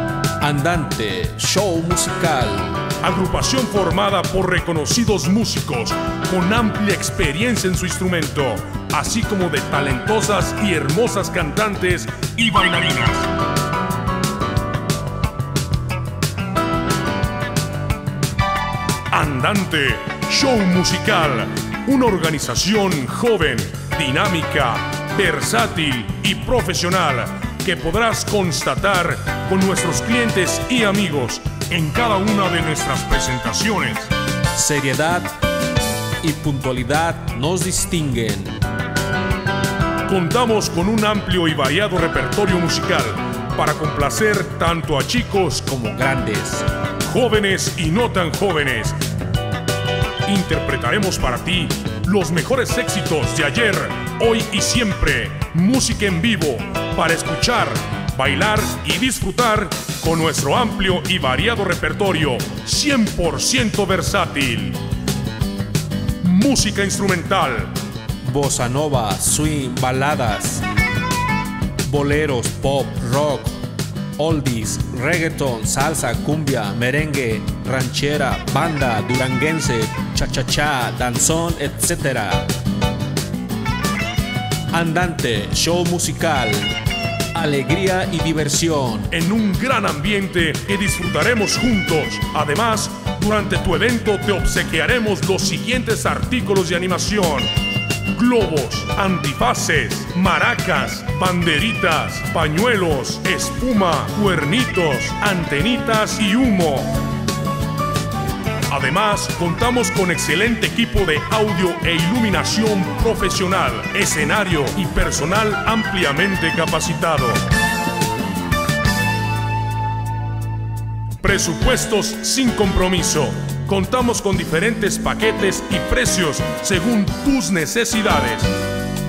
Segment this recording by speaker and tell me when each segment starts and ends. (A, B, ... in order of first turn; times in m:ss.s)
0:00.4-0:02.8 A
0:03.0-0:13.3 B
0:19.1-0:34.1 B
0:34.5-0:35.4 A
0:36.2-0:38.6 A
0:40.1-0:45.7 B
0:45.6-0:46.7 A
0:47.0-0:49.0 B
0:50.3-1:04.8 B
1:06.2-1:07.7 B
1:08.2-1:10.6 A
1:11.8-1:13.6 A
1:14.2-1:22.5 A
1:24.7-1:26.8 A
1:27.3-1:29.1 A
1:29.1-1:37.5 B
1:38.1-1:47.0 B
1:48.7-1:57.4 B
2:01.2-2:08.5 B